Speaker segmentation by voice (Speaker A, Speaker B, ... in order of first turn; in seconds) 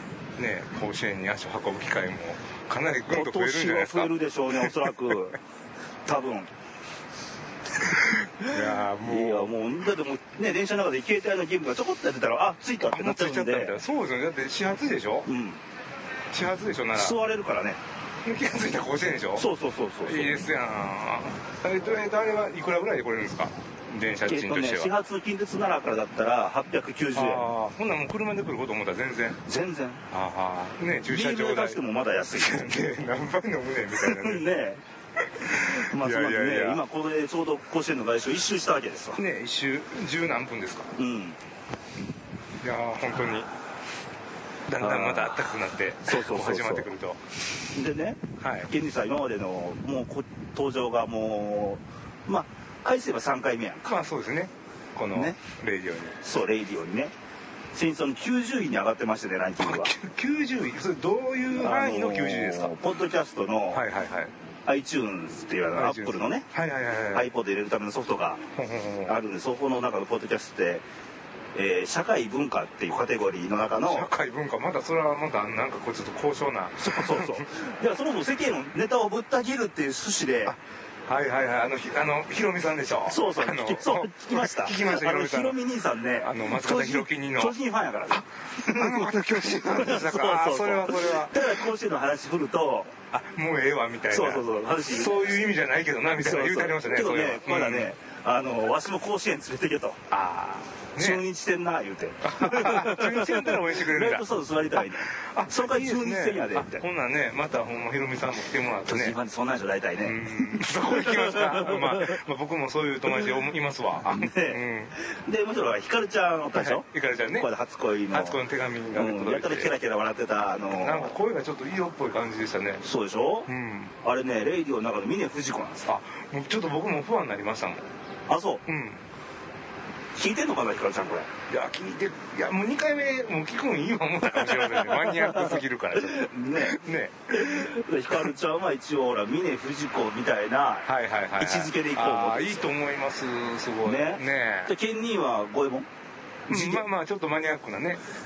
Speaker A: 0.4-4.8, 7.8-9.5, 12.9-15.3, 16.3-17.2, 18.2-19.5, 20.1-24.9, 27.1-29.4, 30.1-34.5, 35.3-36.8, 39.2-40.9, 42.6-43.5, 44.7-47.2, 48.4-48.7, 53.9-56.2, 59.6-62.7, 63.7-64.3, 65.8-67.3, 68.5-69.2, 73.8-77.5, 80.5-85.6, 86.2-87.5, 88.1-91.7, 93.1-97.9, 100.1-101.2, 102.2-109.2, 110.0-115.0, 116.5-117.5, 118.1-119.7, 120.8-122.8, 123.5-124.0, 125.9-127.8, 128.7-129.1, 131.5-137.7, 140.9-144.7, 146.5-148.0
Speaker B: 3.1-5.4, 6.1-6.5, 9.0-13.8, 15.3-15.6, 16.9-17.8, 19.4-20.4, 24.3-27.5, 29.5-30.1, 31.1-32.7, 34.0-34.8, 35.4-39.2, 41.0-41.4, 44.8-45.4, 46.1-46.9, 47.7-53.9, 55.1-55.4, 56.2-57.1, 57.7-59.9, 61.6-63.8, 64.7-66.5, 67.1-68.4, 69.1-70.8, 71.5-74.1, 76.8-80.5, 83.1-92.9, 94.1-95.4, 96.2-100.0, 101.0-106.8, 108.9-112.2, 114.1-118.4, 118.9-121.1, 122.8-123.5, 124.0-125.9, 128.3-128.6, 130.2-131.3, 134.3-142.6, 143.8-145.9, 146.5-146.9